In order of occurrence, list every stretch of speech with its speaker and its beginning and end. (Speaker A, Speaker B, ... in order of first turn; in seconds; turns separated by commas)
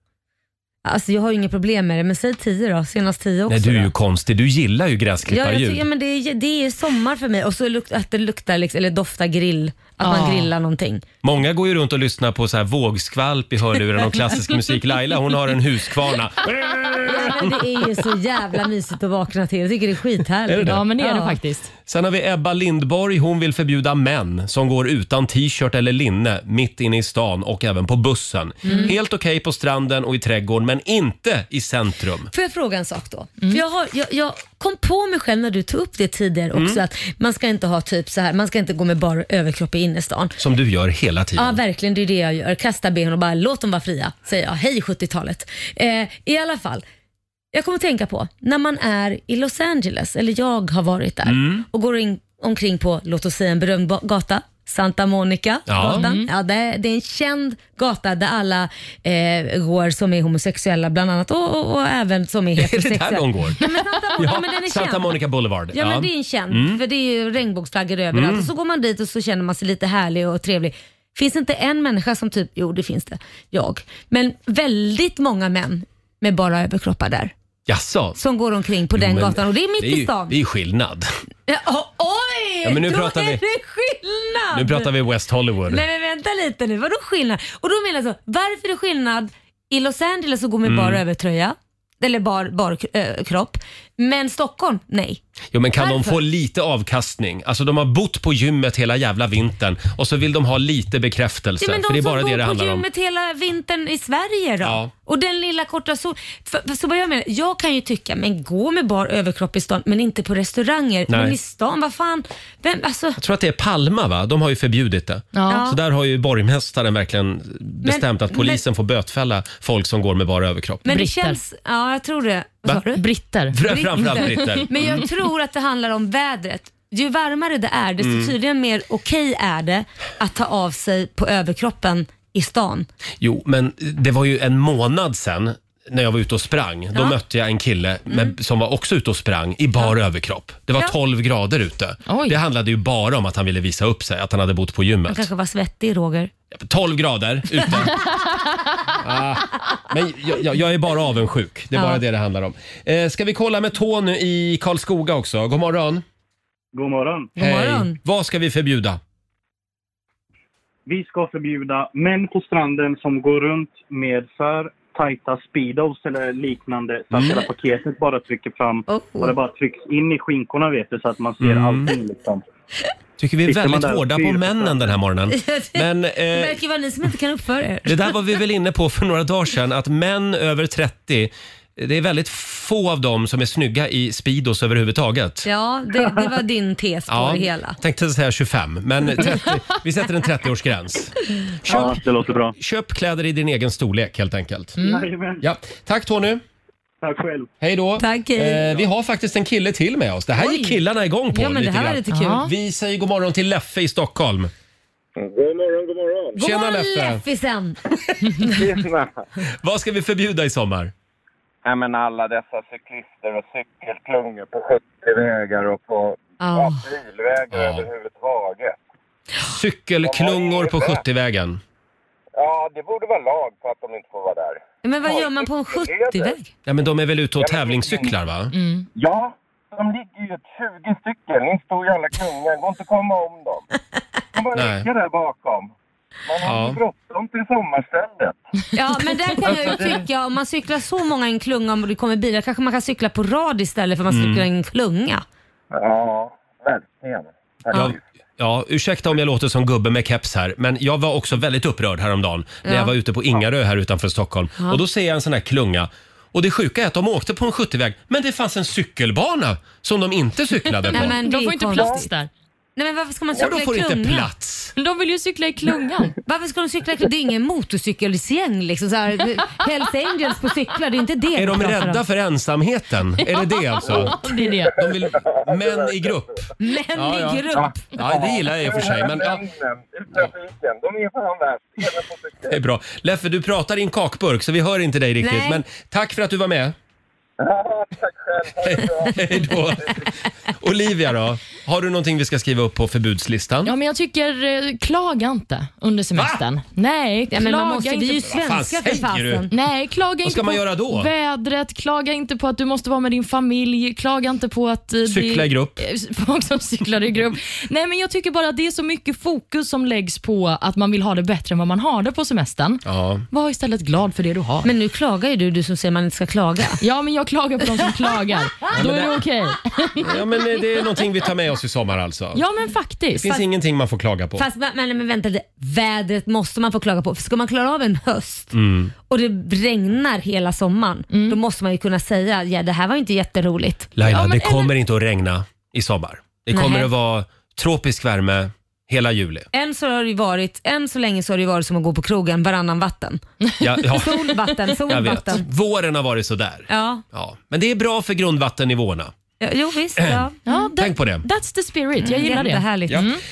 Speaker A: 0.8-3.9, Speaker B: 3.5-5.8, Speaker A: 5.3-11.0, Speaker C: 10.0-10.5, Speaker B: 11.2-17.9, Speaker A: 17.0-21.4, Speaker B: 20.5-20.8, Speaker C: 20.6-21.7, Speaker B: 21.9-32.3, Speaker A: 28.6-28.9, Speaker A: 32.3-40.3, Speaker B: 36.5-36.8, Speaker B: 40.4-41.6, Speaker A: 41.4-46.8, Speaker A: 47.5-65.2, Speaker B: 51.2-51.6, Speaker B: 55.7-56.1, Speaker C: 55.8-56.3, Speaker B: 62.6-63.6, Speaker B: 64.2-66.8, Speaker A: 65.7-77.3, Speaker B: 68.1-68.5, Speaker B: 77.7-78.2, Speaker A: 78.2-80.3, Speaker B: 79.0-81.1, Speaker A: 81.5-84.9, Speaker B: 82.6-83.4, Speaker B: 84.5-85.8, Speaker A: 85.7-95.2, Speaker B: 90.6-91.0, Speaker B: 95.5-102.8, Speaker A: 95.8-96.2, Speaker A: 101.6-113.2, Speaker B: 104.6-104.9, Speaker B: 111.1-111.4, Speaker B: 113.2-120.8, Speaker C: 115.3-115.7, Speaker A: 115.5-115.8, Speaker A: 117.8-118.6, Speaker A: 120.8-123.0, Speaker C: 120.9-121.4, Speaker C: 122.9-123.6, Speaker B: 123.5-125.1, Speaker A: 123.6-132.9, Speaker C: 124.2-124.6, Speaker B: 128.0-128.3, Speaker B: 133.2-145.3, Speaker A: 138.1-138.3, Speaker C: 142.1-142.4, Speaker A: 145.1-146.3, Speaker B: 146.5-148.0, Speaker B: 149.0-156.0, Speaker A: 151.8-152.0, Speaker D: 156.7-157.3, Speaker A: 157.4-158.0, Speaker B: 157.4-159.0, Speaker D: 160.9-172.4, Speaker B: 167.1-167.5, Speaker A: 168.9-169.4, Speaker B: 171.4-171.9, Speaker B: 173.2-176.6, Speaker D: 173.4-175.0, Speaker A: 175.3-178.0, Speaker B: 177.9-185.5, Speaker A: 185.4-187.8, Speaker B: 187.1-194.8, Speaker D: 191.7-192.6, Speaker C: 194.8-195.1, Speaker D: 194.8-195.4, Speaker B: 195.4-196.4, Speaker D: 197.0-197.5, Speaker B: 197.6-204.5, Speaker A: 198.0-198.7, Speaker A: 201.3-202.4, Speaker C: 202.1-202.5, Speaker E: 205.2-206.4, Speaker A: 206.4-207.8, Speaker B: 206.4-207.2, Speaker B: 207.9-208.5, Speaker E: 208.6-209.3, Speaker B: 209.6-210.9, Speaker E: 211.7-218.8, Speaker A: 216.4-216.8, Speaker B: 217.5-217.9, Speaker B: 219.5-221.6, Speaker E: 220.0-221.0, Speaker E: 222.4-226.4, Speaker A: 224.8-226.5, Speaker B: 226.7-228.5, Speaker E: 227.4-228.2, Speaker C: 228.5-228.9, Speaker E: 228.9-233.7, Speaker E: 234.3-235.7, Speaker B: 234.6-234.9, Speaker E: 236.3-238.4, Speaker B: 236.4-236.8, Speaker A: 238.8-245.2, Speaker E: 239.6-240.0, Speaker B: 244.1-244.4, Speaker E: 245.7-248.0, Speaker B: 247.8-261.2, Speaker A: 252.7-252.9, Speaker A: 260.9-262.1, Speaker C: 260.9-262.3, Speaker E: 261.8-262.0, Speaker A: 262.8-264.3, Speaker B: 263.4-264.7, Speaker C: 264.8-266.1, Speaker A: 266.2-272.0, Speaker B: 271.4-274.2, Speaker C: 273.2-274.7, Speaker E: 273.9-276.3, Speaker B: 274.8-279.4, Speaker A: 276.6-277.9, Speaker E: 277.5-282.6, Speaker B: 282.5-286.8, Speaker A: 285.2-285.6, Speaker E: 287.4-290.0, Speaker B: 288.7-293.7, Speaker C: 293.7-298.2, Speaker A: 297.3-299.5, Speaker B: 298.2-299.5, Speaker C: 299.5-314.7, Speaker B: 300.2-301.1, Speaker B: 305.1-305.8, Speaker B: 312.9-313.2, Speaker A: 314.6-316.8, Speaker C: 316.8-320.1, Speaker B: 318.7-319.2, Speaker B: 320.0-322.4, Speaker C: 322.4-323.3, Speaker B: 323.2-324.4, Speaker A: 324.4-328.5, Speaker B: 328.5-328.9, Speaker A: 329.1-333.9, Speaker C: 331.1-331.4, Speaker B: 334.0-339.5, Speaker C: 334.0-334.7, Speaker A: 336.5-336.9, Speaker A: 339.5-343.2, Speaker B: 343.6-344.2, Speaker A: 343.8-345.4, Speaker B: 344.9-349.1, Speaker A: 346.7-347.0, Speaker A: 349.4-350.9, Speaker B: 350.0-350.3, Speaker C: 350.5-353.2, Speaker B: 350.8-351.2, Speaker A: 352.0-353.1